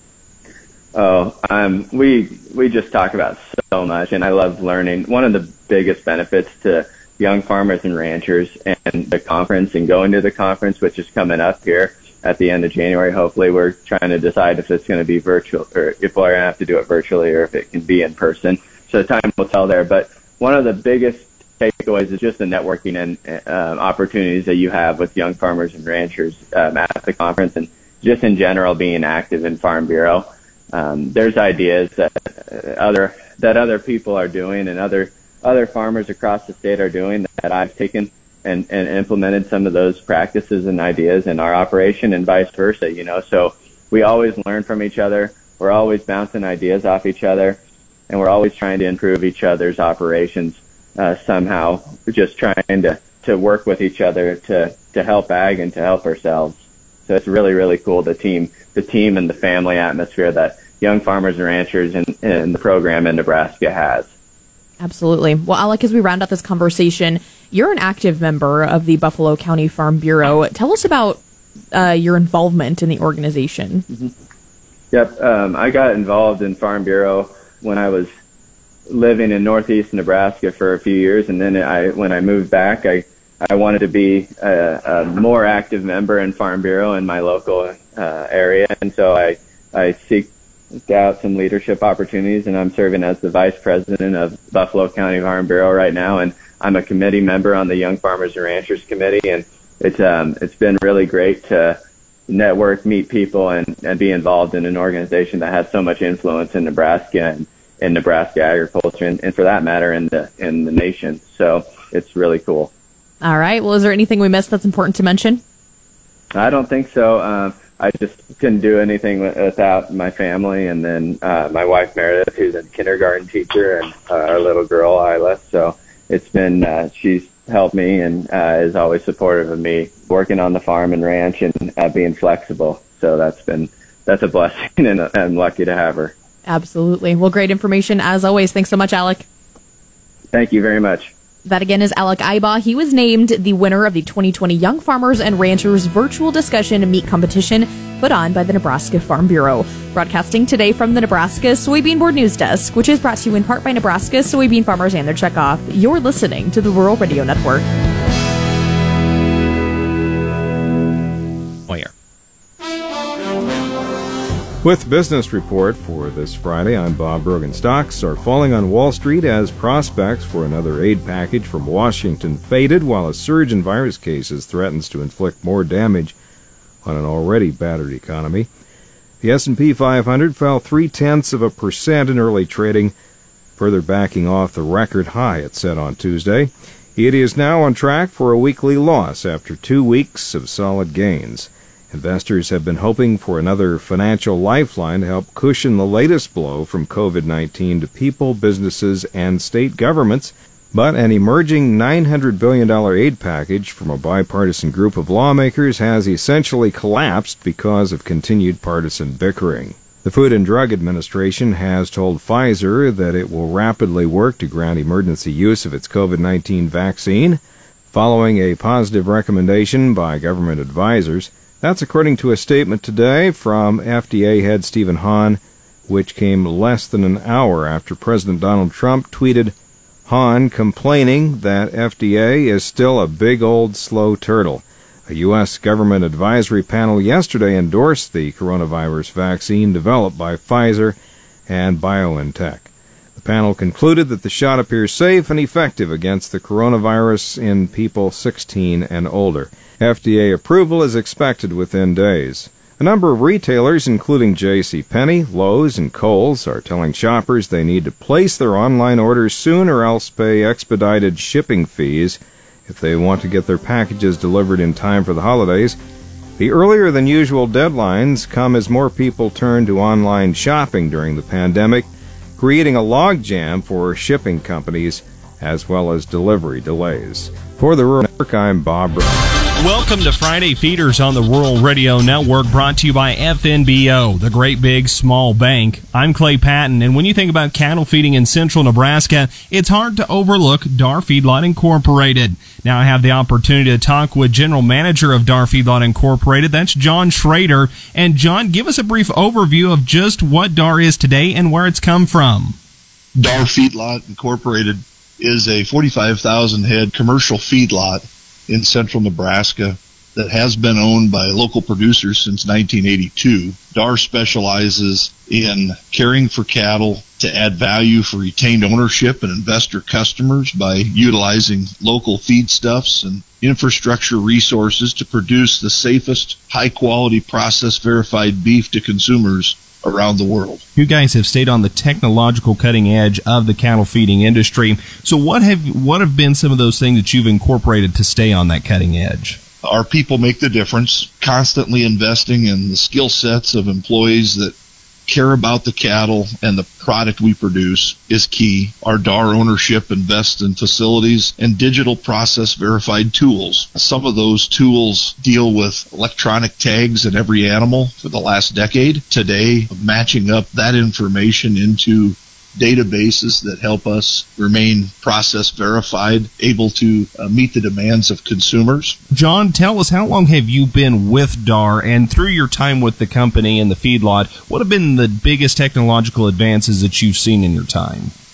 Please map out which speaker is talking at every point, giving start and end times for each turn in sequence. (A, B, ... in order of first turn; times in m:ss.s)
0:00.9-0:47.6 A
0:48.1-1:04.1 A
1:04.8-1:11.2 B
1:11.7-1:13.8 B
1:14.9-1:18.1 A
1:18.9-1:30.3 A
1:30.8-1:41.8 A
1:42.3-1:52.7 A
1:53.2-1:55.4 B
1:56.3-2:16.1 A
2:16.4-2:19.2 B
2:20.3-2:21.1 A
2:21.4-2:37.6 B
2:44.6-2:56.2 C
2:56.8-2:58.5 C
2:59.2-3:02.9 C
3:03.6-3:37.4 C
3:37.9-3:49.5 C
3:50.0-4:25.8 C
4:26.4-4:39.0 C
4:39.6-5:02.6 D
5:03.2-5:30.6 E
5:30.8-5:39.4 D
5:39.6-5:44.6 E
5:45.1-6:09.0 E
6:09.1-6:18.1 D